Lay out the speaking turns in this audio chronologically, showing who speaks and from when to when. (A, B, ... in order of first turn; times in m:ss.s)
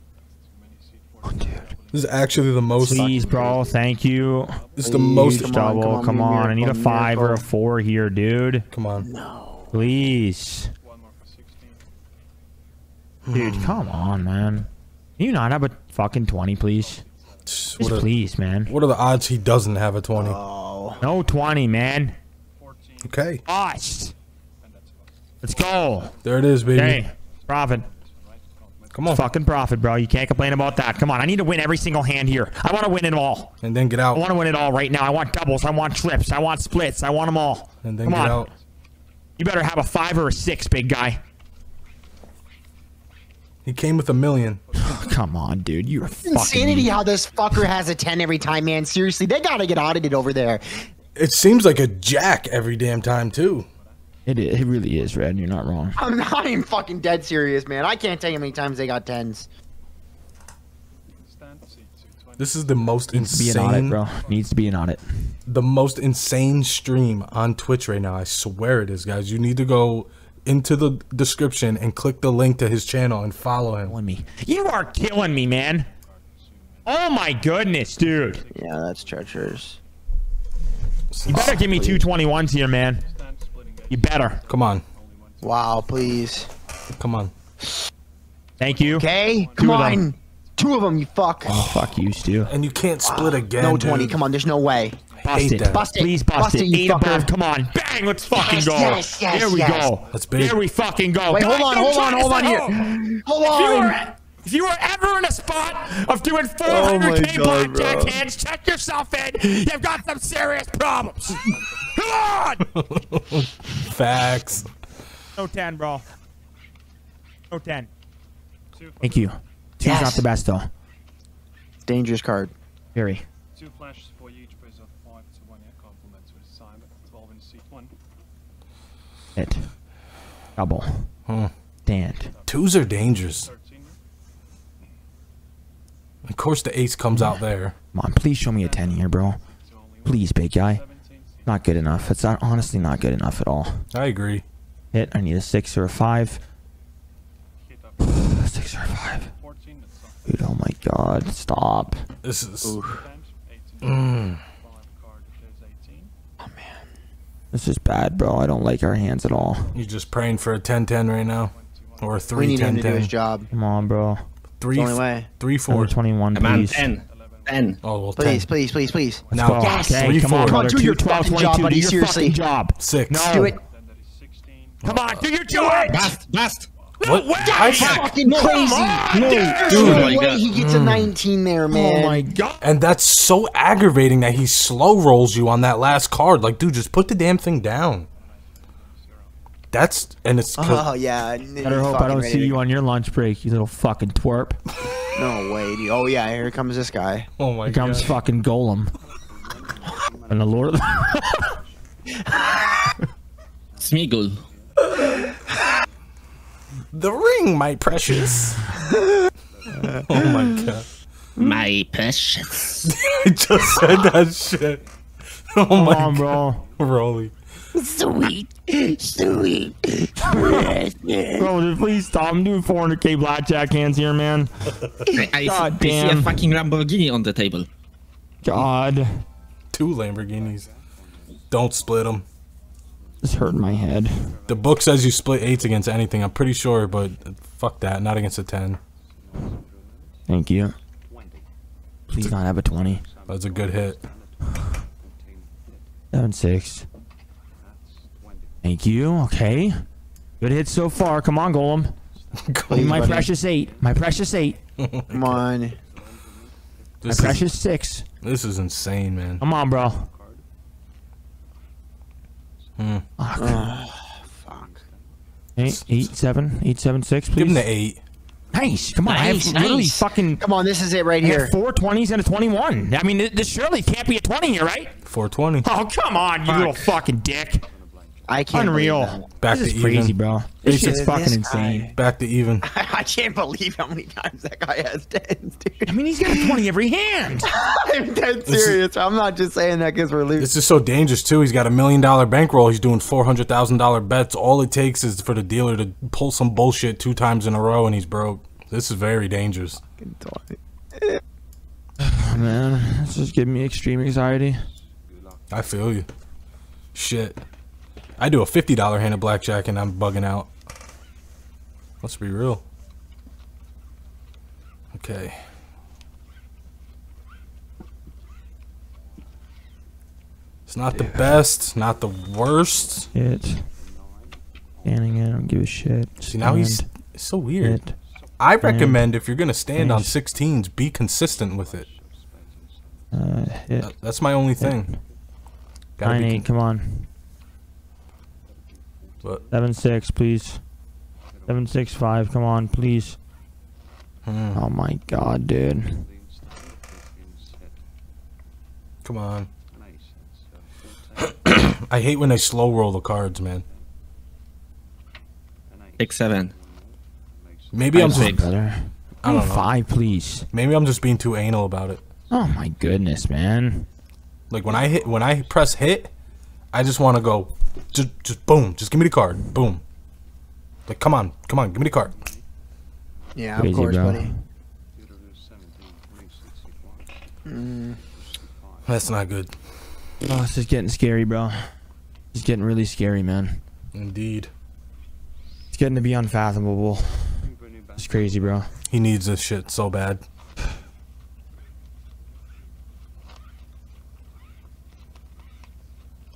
0:00.2-0:04.9 A
0:01.3-0:01.5 B
0:01.9-0:03.6 C
0:02.8-0:08.6 B
0:04.8-0:05.6 C
0:04.8-0:07.4 D
0:08.7-0:09.1 C
0:09.0-0:09.8 D
0:09.7-0:10.7 B
0:10.8-0:11.9 A
0:13.2-0:13.8 C
0:13.3-0:14.7 B
0:15.2-0:17.0 B
0:16.3-0:18.3 A
0:17.4-0:18.1 C
0:17.8-0:18.7 B
0:18.6-0:20.4 C
0:20.2-0:21.0 D
0:21.0-0:22.2 B
0:22.5-0:23.3 A
0:23.0-0:23.4 C
0:23.4-0:24.1 B
0:24.6-0:29.4 A
0:25.4-0:26.1 B
0:26.2-0:27.0 C
0:26.7-0:27.9 B
0:28.9-0:29.2 C
0:29.0-0:33.5 B
0:30.3-0:31.0 A
0:33.6-0:34.2 C
0:34.1-0:38.5 B
0:37.8-0:38.5 C
0:39.4-0:41.2 B
0:43.6-0:44.6 C
0:44.6-0:47.7 A
0:44.7-0:47.0 B
0:46.2-0:50.8 D
0:51.2-0:53.7 C
0:53.6-0:56.0 A
0:54.2-0:56.0 B
0:55.9-0:59.5 D
1:01.1-1:04.8 A
1:02.4-1:04.0 C
1:03.1-1:05.3 B
1:05.5-1:13.9 C
1:13.8-1:15.9 B
1:14.2-1:19.8 A
1:16.8-1:18.4 B
1:18.5-1:19.8 D
1:21.1-1:22.0 C
1:21.3-1:23.0 B
1:23.0-1:26.4 A
1:23.9-1:24.4 B
1:24.5-1:24.8 C
1:25.4-1:26.5 D
1:27.0-1:27.3 C
1:28.6-1:31.0 A
1:28.6-1:30.0 B
1:28.9-1:31.6 D
1:31.4-1:32.5 B
1:31.5-1:34.2 C
1:32.5-1:32.9 A
1:33.0-1:35.0 D
1:34.7-1:35.5 A
1:35.2-1:52.6 B
1:35.3-1:35.9 C
1:35.6-1:37.3 D
1:38.0-1:38.7 A
1:38.3-1:39.9 D
1:39.6-1:41.4 A
1:40.1-1:40.6 C
1:41.3-1:44.1 D
1:46.6-1:48.2 D
1:51.4-1:51.9 A
1:52.7-1:54.7 C
1:55.4-1:56.0 B
1:57.5-1:57.9 B
1:58.7-1:59.3 A
1:59.0-2:00.7 B
1:59.8-2:00.2 D
2:01.9-2:02.5 D
2:02.9-2:03.2 B
2:03.5-2:07.9 A
2:09.4-2:09.7 B
2:10.5-2:11.1 B
2:11.3-2:11.5 C
2:11.8-2:12.3 B
2:12.2-2:14.0 A
2:12.5-2:13.5 C
2:16.2-2:17.7 C
2:17.9-2:19.4 B
2:18.5-2:22.0 A
2:20.0-2:20.8 B
2:21.4-2:23.8 B
2:23.9-2:24.4 C
2:24.9-2:26.4 B
2:27.6-2:30.5 A
2:28.0-2:29.3 B
2:30.2-2:32.0 B
2:32.2-2:32.8 C
2:32.6-2:33.0 D
2:32.8-2:36.1 A
2:33.8-2:34.4 C
2:36.4-2:36.8 D
2:37.5-2:39.7 B
2:39.4-2:40.4 A
2:39.7-2:43.1 C
2:41.4-2:43.9 A
2:42.3-2:43.5 D
2:43.5-2:44.2 B
2:44.6-2:45.9 C
2:44.7-2:45.3 D
2:45.7-2:46.9 B
2:46.3-2:47.8 E
2:46.5-2:47.8 A
2:47.8-2:48.4 C
2:48.2-2:52.4 D
2:48.2-2:48.5 B
2:48.7-2:49.8 A
2:49.3-2:50.6 C
2:49.3-2:53.6 B
2:52.8-2:53.3 C
2:53.1-2:53.6 D
2:53.6-2:55.0 A
2:54.8-2:55.2 C
2:54.8-2:56.1 B
2:55.5-2:56.1 D
2:55.9-2:56.7 E
2:56.7-2:57.0 A
2:57.0-3:00.2 B
2:57.0-2:58.2 C
2:57.5-3:02.2 D
2:58.2-3:00.5 E
2:59.7-3:01.1 C
3:01.7-3:02.7 B
3:02.6-3:08.1 C
3:08.2-3:09.3 A
3:09.7-3:10.9 C
3:10.6-3:12.6 D
3:11.6-3:14.6 B
3:15.1-3:17.3 D
3:17.4-3:18.2 C
3:17.6-3:18.9 B
3:20.3-3:21.6 B
3:22.2-3:22.9 D
3:23.8-3:24.4 E
3:26.9-3:28.7 C
3:28.8-3:29.1 D
3:29.9-3:30.9 C
3:31.4-3:33.0 E
3:32.8-3:34.8 C
3:35.5-3:37.3 C
3:35.7-3:36.6 B
3:37.7-3:41.5 D
3:40.2-3:40.8 B
3:41.3-3:44.5 B
3:45.1-3:47.7 E
3:45.4-3:46.4 B
3:48.4-3:49.2 B
3:49.7-3:50.7 C
3:51.5-3:52.2 C
3:53.2-3:54.4 B
3:54.4-3:58.8 C
4:00.3-4:00.8 B
4:02.1-4:03.0 B
4:03.2-4:04.0 C
4:06.1-4:06.9 B
4:08.6-4:09.8 B
4:10.4-4:11.9 B
4:12.4-4:13.3 C
4:12.7-4:13.3 D
4:12.7-4:14.6 B
4:14.8-4:15.4 C
4:15.1-4:15.8 D
4:17.0-4:17.4 C
4:17.0-4:18.0 B
4:18.2-4:19.4 C
4:19.4-4:20.1 B
4:22.8-4:23.0 C
4:23.2-4:23.7 B
4:23.4-4:24.8 D
4:25.6-4:27.6 B
4:25.6-4:26.0 C
4:27.4-4:28.0 C
4:28.5-4:30.4 B
4:29.0-4:31.5 D
4:31.2-4:34.9 B
4:35.0-4:35.7 C
4:35.6-4:37.6 B
4:38.3-4:39.3 D
4:38.5-4:41.9 B
4:39.4-4:41.1 C
4:40.6-4:41.9 D
4:41.9-4:42.6 C
4:42.6-4:46.5 D
4:45.8-4:47.5 B
4:47.4-4:50.5 D
4:48.5-4:48.8 C
4:50.4-4:59.8 C
5:00.0-5:01.2 D
5:02.0-5:04.6 B
5:05.5-5:06.1 C
5:06.9-5:07.4 C
5:08.2-5:10.5 C
5:12.0-5:12.6 C
5:14.9-5:15.4 C
5:20.7-5:23.1 C
5:20.9-5:21.3 B
5:23.1-5:23.8 B
5:24.8-5:28.0 B
5:26.3-5:27.8 C
5:28.4-5:31.9 C
5:28.6-5:29.1 B
5:29.8-5:30.1 B
5:33.1-5:33.9 B
5:33.8-5:35.0 C
5:34.6-5:35.0 B
5:36.0-5:36.4 C
5:36.0-5:37.1 B
5:39.5-5:40.6 B
5:41.5-5:43.2 B
5:44.2-5:44.6 C
5:44.5-5:46.1 B
5:49.0-5:49.5 C
5:51.2-5:53.6 C
5:56.0-5:56.6 E
5:57.7-5:58.4 C
5:57.9-5:58.4 E
5:57.9-6:00.5 B
5:59.2-5:59.7 C
6:00.5-6:02.0 C
6:02.3-6:03.9 B
6:04.5-6:06.1 C
6:06.7-6:09.8 C
6:10.9-6:12.1 C
6:13.3-6:14.3 D
6:13.6-6:14.4 B
6:17.4-6:18.0 D
6:18.8-6:19.7 C
6:20.2-6:21.7 B
6:22.3-6:23.6 B
6:23.9-6:24.5 C
6:25.7-6:28.7 B
6:28.9-6:30.2 C